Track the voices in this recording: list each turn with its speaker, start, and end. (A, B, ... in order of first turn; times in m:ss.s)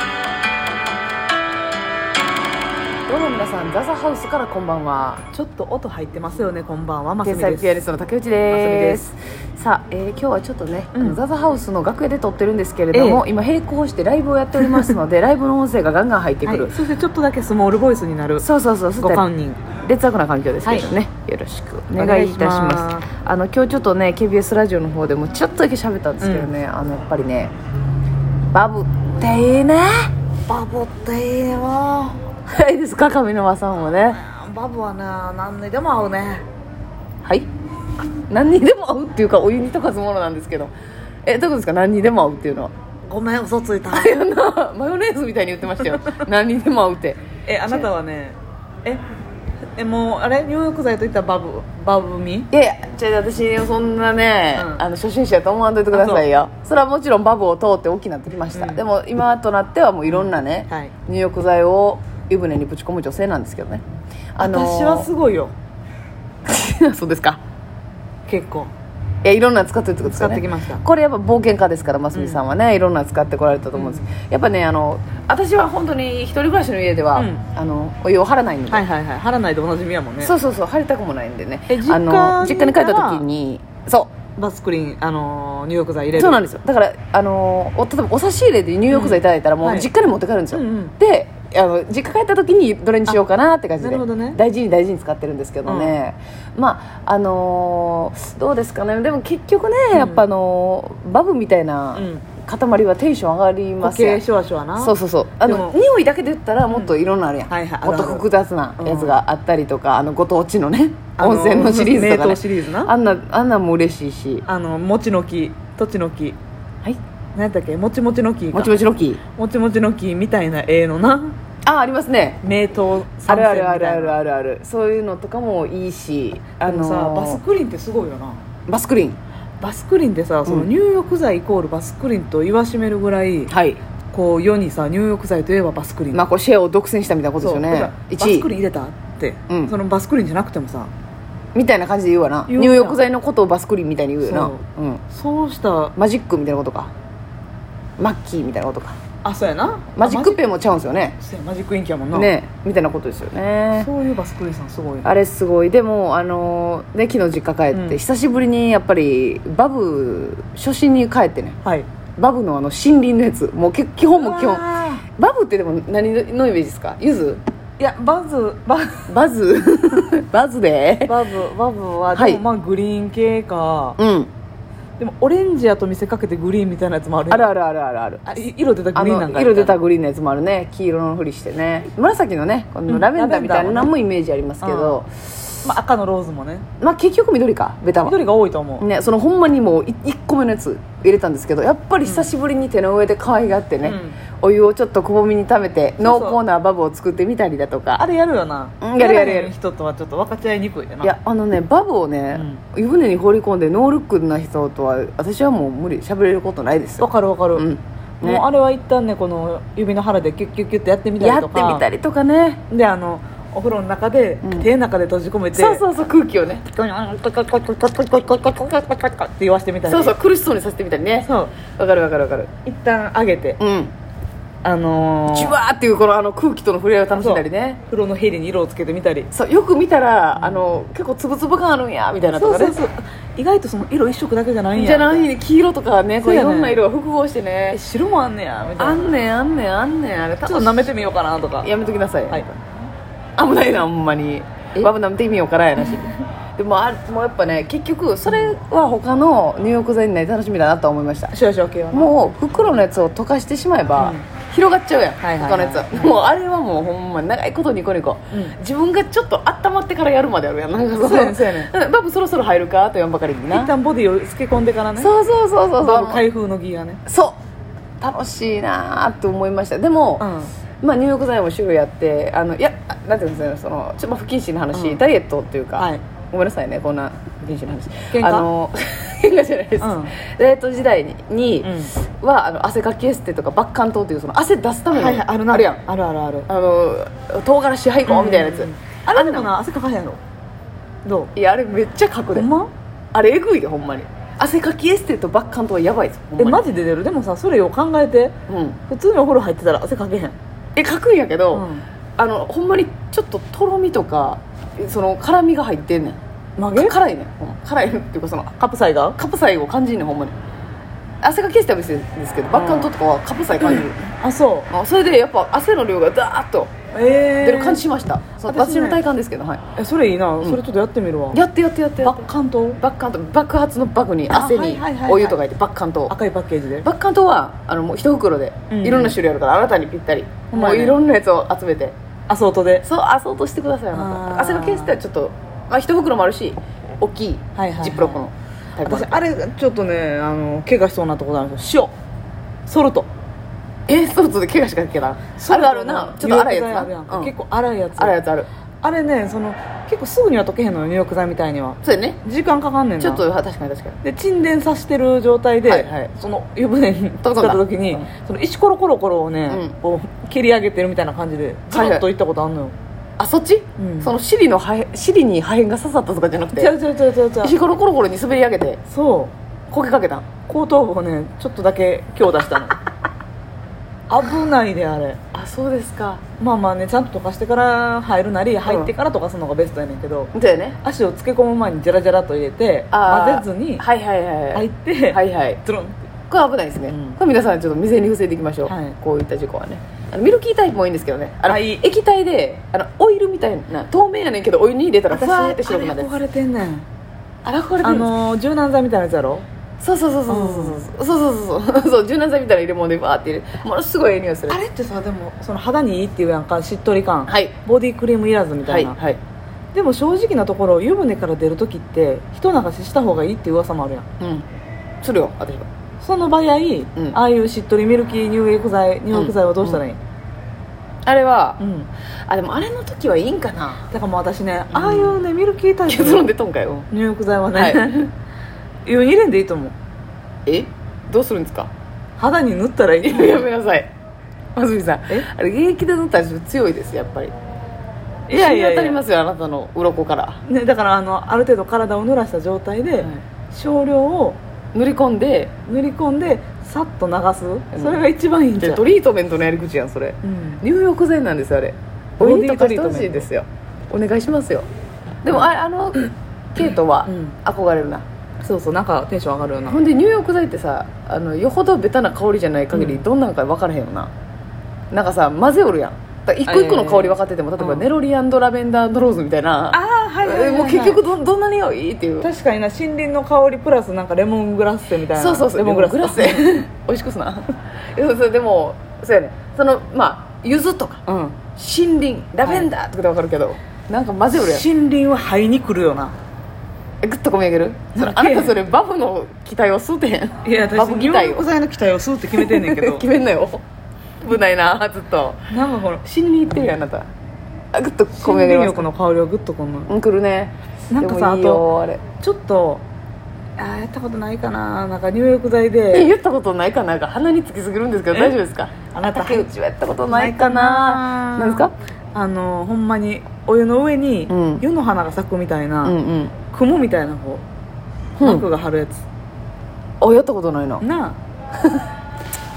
0:03.1-0:05.2 A
0:05.3-0:07.9 B
0:07.2-0:16.7 A
0:08.5-0:09.0 B
0:10.9-0:11.2 B
0:12.9-0:13.2 B
0:14.6-0:14.9 B
0:16.4-0:18.4 B
0:18.4-0:19.2 A
0:19.0-0:19.6 B
0:19.8-0:27.5 A
0:22.0-0:23.1 B
0:26.2-0:26.5 B
0:28.5-0:30.1 A
0:30.5-0:32.2 B
0:32.5-0:34.2 A
0:34.1-0:36.4 B
0:38.3-0:40.7 A
0:41.2-0:42.7 A
0:43.1-0:44.1 B
0:43.9-0:47.9 A
0:47.4-0:49.0 B
0:49.8-0:52.5 B
0:52.5-1:03.8 A
0:54.6-0:54.8 B
0:55.9-0:56.2 B
0:58.5-0:58.8 B
1:00.1-1:00.9 B
1:04.3-1:05.1 A
1:04.4-1:05.5 B
1:06.4-1:07.4 A
1:08.2-1:08.7 B
1:09.2-1:18.8 A
1:10.0-1:10.8 B
1:12.1-1:12.4 B
1:13.7-1:14.0 B
1:17.2-1:17.4 B
1:18.7-1:20.3 B
1:20.2-1:24.1 A
1:21.7-1:23.2 B
1:24.4-1:26.4 B
1:26.2-1:44.2 A
1:28.9-1:29.9 B
1:30.5-1:30.9 B
1:33.8-1:34.4 B
1:35.6-1:36.0 B
1:39.9-1:40.2 B
1:41.9-1:42.2 B
1:43.8-1:45.8 B
1:44.8-1:54.4 A
1:47.5-1:48.2 B
1:48.8-1:49.2 B
1:51.2-1:52.9 B
1:54.4-1:56.4 B
1:57.3-1:58.8 B
1:58.5-1:59.2 A
1:59.4-2:01.4 B
2:01.6-2:02.4 A
2:02.4-2:04.2 B
2:03.3-2:07.4 A
2:06.6-2:08.4 B
2:08.7-2:09.2 A
2:09.6-2:13.5 B
2:13.5-2:13.8 A
2:14.1-2:16.2 B
2:16.1-2:18.5 A
2:17.4-2:20.9 B
2:19.5-2:19.7 A
2:21.5-2:25.0 A
2:22.5-2:23.0 B
2:24.2-2:24.6 B
2:25.1-2:25.9 B
2:26.0-2:26.9 A
2:28.0-2:29.0 A
2:29.2-2:30.4 B
2:29.9-2:31.2 A
2:31.2-2:32.3 B
2:32.1-2:33.9 A
2:33.7-2:35.1 B
2:35.0-2:41.6 A
2:37.7-2:38.0 B
2:42.2-2:47.4 A
2:44.1-2:45.0 B
2:47.8-2:49.1 B
2:49.1-2:51.2 A
2:51.0-2:54.0 B
2:52.1-2:52.4 A
2:54.0-2:54.3 A
2:55.0-2:57.5 B
2:57.3-2:58.4 A
2:58.2-2:59.8 B
2:58.9-3:05.0 A
3:02.9-3:03.9 B
3:04.6-3:05.1 B
3:05.6-3:06.6 B
3:06.8-3:08.2 A
3:08.0-3:08.8 B
3:08.8-3:18.0 A
3:13.8-3:14.2 B
3:16.0-3:16.4 B
3:18.0-3:21.2 B
3:18.8-3:19.5 A
3:21.0-3:28.4 A
3:22.3-3:22.6 B
3:27.0-3:27.7 B
3:28.2-3:31.8 B
3:31.2-3:32.6 A
3:32.7-3:35.8 B
3:35.6-3:36.6 A
3:36.7-3:40.2 B
3:39.8-3:42.5 A
3:41.2-3:41.5 B
3:42.6-3:43.6 B
3:43.6-3:43.9 A
3:44.6-3:45.6 B
3:45.3-3:47.8 A
3:47.1-3:49.3 B
3:49.3-3:52.8 A
3:50.3-3:50.6 B
3:52.3-3:55.3 B
3:54.7-3:57.8 A
3:56.2-3:56.8 B
3:57.7-3:59.1 B
3:58.8-4:01.0 A
4:00.4-4:01.7 B
4:01.6-4:02.4 A
4:02.3-4:02.9 B
4:03.4-4:11.4 A
4:05.8-4:06.1 B
4:11.3-4:12.8 B
4:11.9-4:23.7 A
4:14.0-4:14.2 B
4:15.2-4:16.1 B
4:21.0-4:21.7 B
4:23.5-4:25.1 B
4:25.0-4:26.2 A
4:25.8-4:27.0 B
4:27.0-4:27.4 A
4:28.0-4:30.2 A
4:30.2-4:30.5 B
4:30.8-4:45.8 A
4:34.7-4:35.0 B
4:35.8-4:36.0 B
4:38.1-4:38.5 B
4:39.8-4:40.1 B
4:41.6-4:41.9 B
4:44.9-4:46.5 B
4:46.5-4:49.5 A
4:48.0-4:50.2 B
4:51.0-4:51.3 B
4:51.3-4:52.5 A
4:52.3-4:52.7 B
4:53.1-4:56.6 A
4:56.4-4:58.4 B
4:58.5-4:58.8 A
4:58.9-5:00.4 B
5:00.8-5:01.6 A
5:01.5-5:01.8 B
5:02.2-5:06.2 A
5:06.6-5:06.9 B
5:06.7-5:08.5 A
5:08.6-5:09.2 B
5:09.1-5:10.3 A
5:11.2-5:14.0 A
5:12.5-5:12.9 B
5:13.6-5:14.7 B
5:14.7-5:16.7 A
5:16.9-5:17.8 B
5:17.4-5:19.6 A
5:18.4-5:19.0 B
5:19.8-5:21.4 B
5:21.3-5:26.1 A
5:22.0-5:22.8 B
5:24.3-5:25.4 B
5:26.1-5:26.9 B
5:26.8-5:31.9 A
5:28.7-5:29.2 B
5:30.5-5:31.0 B
5:32.3-5:32.8 B
5:32.8-5:39.3 A
5:33.9-5:35.0 B
5:37.6-5:38.2 B
5:38.8-5:41.9 B
5:42.7-5:43.1 B
5:43.9-5:47.3 A
5:45.4-5:48.2 B
5:48.0-5:48.5 A
5:48.8-5:53.2 B
5:51.8-5:52.2 A
5:53.0-5:54.0 A
5:54.0-6:02.7 B
5:55.6-5:56.1 A
5:57.2-5:58.0 A
5:59.5-5:59.7 A
6:01.7-6:02.0 A
6:03.2-6:06.7 A
6:03.8-6:04.1 B
6:06.6-6:07.6 B
6:07.4-6:08.8 A
6:08.9-6:09.3 B
6:09.7-6:10.2 A
6:10.5-6:12.8 B
6:14.1-6:15.2 B
6:15.3-6:16.2 A
6:16.4-6:20.3 B
6:18.6-6:18.9 A
6:20.3-6:20.8 A
6:20.8-6:23.8 B
6:22.9-6:25.6 A
6:24.5-6:26.0 B
6:26.3-6:36.2 A
6:28.6-6:29.0 B
6:31.4-6:31.8 B
6:35.1-6:36.9 B
6:37.4-6:38.1 A
6:37.8-6:39.4 B
6:39.8-6:44.6 A
6:40.3-6:40.8 B
6:44.5-6:48.9 B
6:47.3-6:47.5 A
6:48.6-6:49.2 A
6:49.7-6:54.0 B
6:54.2-6:54.4 A
6:55.0-6:55.7 A
6:56.0-7:00.0 B
6:59.1-6:59.8 A
7:01.0-7:01.6 A
7:01.6-7:01.9 B
7:02.3-7:03.9 A
7:03.9-7:06.3 B
7:04.7-7:05.2 A
7:05.9-7:06.9 A
7:06.9-7:08.1 B
7:07.5-7:08.1 A
7:08.8-7:09.7 B
7:10.4-7:11.7 A
7:12.2-7:13.4 B
7:13.0-7:13.9 A
7:14.6-7:17.3 A
7:18.3-7:19.0 B
7:18.3-7:20.4 A
7:20.4-7:24.4 B
7:24.7-7:25.5 A
7:25.7-7:28.8 B
7:27.7-7:28.0 A
7:28.6-7:34.6 A
7:30.2-7:30.6 B
7:32.2-7:33.3 B
7:35.2-7:38.0 A
7:37.0-7:37.4 B
7:38.4-7:39.8 B
7:39.7-7:44.1 A
7:42.7-7:43.0 B
7:44.9-7:52.3 A
7:46.4-7:47.9 B
7:49.7-7:51.0 B
7:52.2-7:56.6 B
7:55.1-8:04.6 A
8:04.3-8:06.2 B
8:07.0-8:11.4 A
8:08.0-8:08.6 B
8:10.4-8:13.0 B
8:12.3-8:13.6 A
8:14.2-8:15.4 A
8:15.5-8:16.6 B
8:16.0-8:17.1 A
8:17.7-8:18.9 A
8:18.1-8:19.9 B
8:19.9-8:22.0 A
8:20.9-8:21.6 B
8:22.2-8:22.8 B
8:23.6-8:26.1 B
8:25.9-8:31.7 A
8:28.1-8:28.4 B
8:28.9-8:29.5 B
8:30.1-8:36.0 B
8:34.3-8:34.6 A
8:35.8-8:36.3 A
8:36.5-8:37.4 B
8:38.2-8:38.4 A
8:38.2-8:39.0 B
8:40.0-8:40.8 A
8:40.8-8:41.2 B